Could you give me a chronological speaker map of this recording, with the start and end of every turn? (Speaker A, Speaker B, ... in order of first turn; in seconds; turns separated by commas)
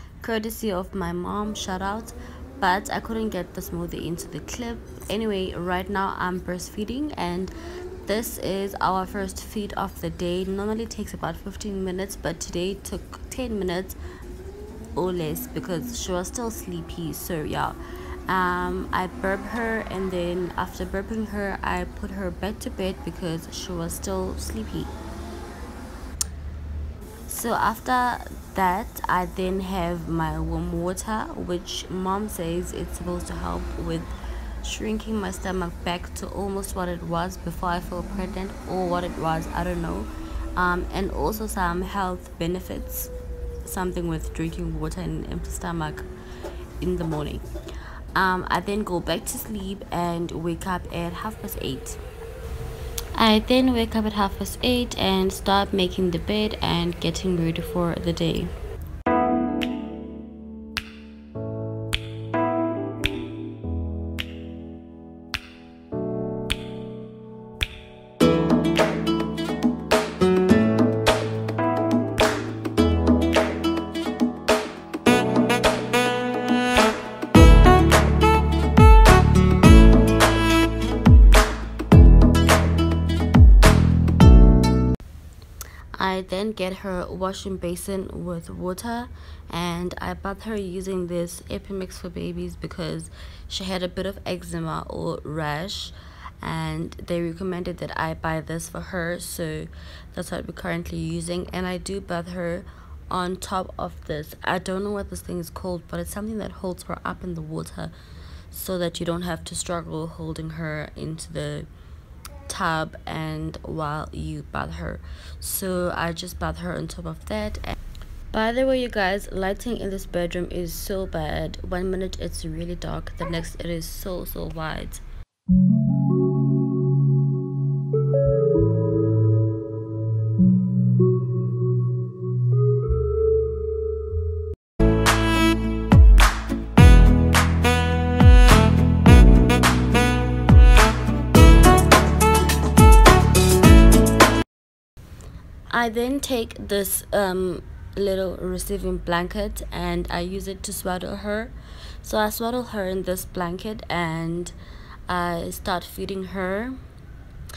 Speaker A: 0.2-7.5, Speaker A: 8.1-14.0, Speaker A: 14.9-24.9, Speaker A: 27.3-43.1, Speaker A: 43.6-46.1, Speaker A: 46.8-47.5, Speaker A: 48.1-52.0, Speaker A: 53.1-58.5, Speaker A: 85.9-107.9, Speaker A: 108.5-111.7, Speaker A: 112.5-117.8, Speaker A: 118.3-125.0, Speaker A: 145.7-154.6, Speaker A: 155.1-156.8